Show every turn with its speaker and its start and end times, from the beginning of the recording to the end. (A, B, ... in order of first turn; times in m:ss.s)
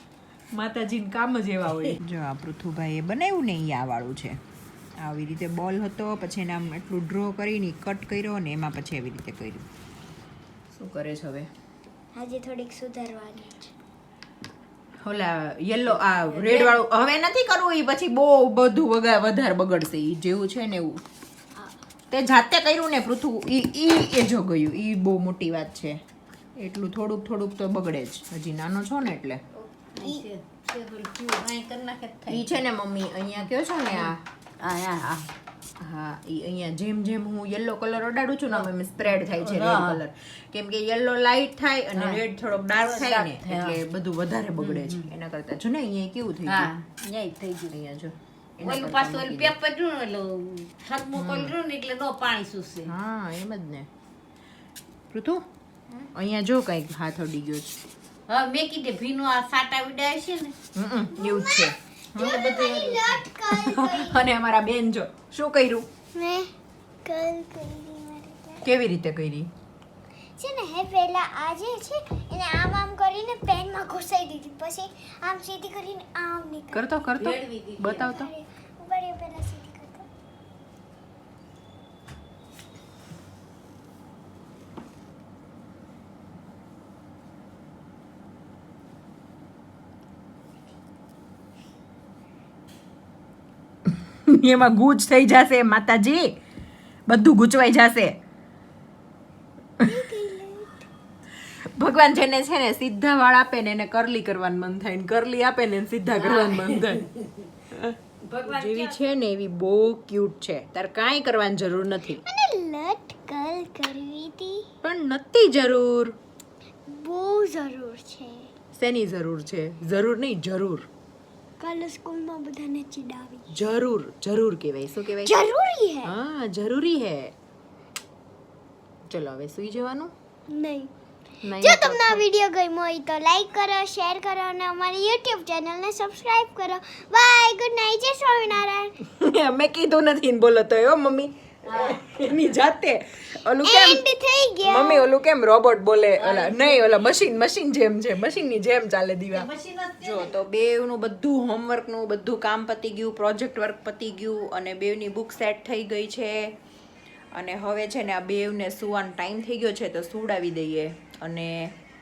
0:00.5-0:04.4 A
0:05.0-0:09.7 A
0:10.7-0:11.5 A
0:12.2-0:13.7 B
0:15.0-0:21.0 A
0:16.3-0:16.8 C
0:22.1-0:26.0 A
0:26.6-0:29.4 A
0:29.6-0:32.6 C
0:32.3-0:34.2 A
0:33.9-0:35.3 C
0:35.8-0:46.7 A
0:39.2-0:40.0 C
0:42.0-0:43.8 C
0:44.6-0:45.1 C
0:46.5-0:47.7 C
0:47.7-0:49.5 A
0:48.6-0:52.9 C
0:51.2-0:51.5 A
0:52.8-0:53.9 A
0:55.1-0:55.4 A
0:56.1-0:57.8 A
0:58.3-1:00.6 C
1:00.8-1:03.0 A
1:01.1-1:04.3 B
1:02.2-1:03.1 C
1:03.5-1:05.9 A
1:06.2-1:06.5 B
1:07.0-1:08.6 B
1:08.6-1:09.5 A
1:10.4-1:16.9 B
1:16.7-1:18.3 A
1:17.2-1:18.1 C
1:17.9-1:20.1 B
1:34.0-1:36.4 A
1:37.1-1:38.2 A
1:39.9-1:40.9 B
1:41.5-1:47.1 A
1:46.1-1:47.5 C
1:47.7-1:52.2 A
1:48.2-1:49.0 C
1:52.2-1:54.7 B
1:54.8-1:56.2 A
1:56.9-1:58.5 B
1:58.7-2:00.9 A
2:01.6-2:03.5 B
2:03.5-2:05.4 A
2:05.2-2:06.1 B
2:06.0-2:07.3 A
2:09.1-2:10.1 A
2:10.5-2:10.9 B
2:11.4-2:12.2 A
2:11.6-2:19.0 B
2:19.0-2:24.0 A
2:21.6-2:22.3 C
2:23.6-2:25.1 B
2:24.6-2:36.5 A
2:26.2-2:27.2 C
2:29.3-2:30.4 C
2:37.3-2:41.7 A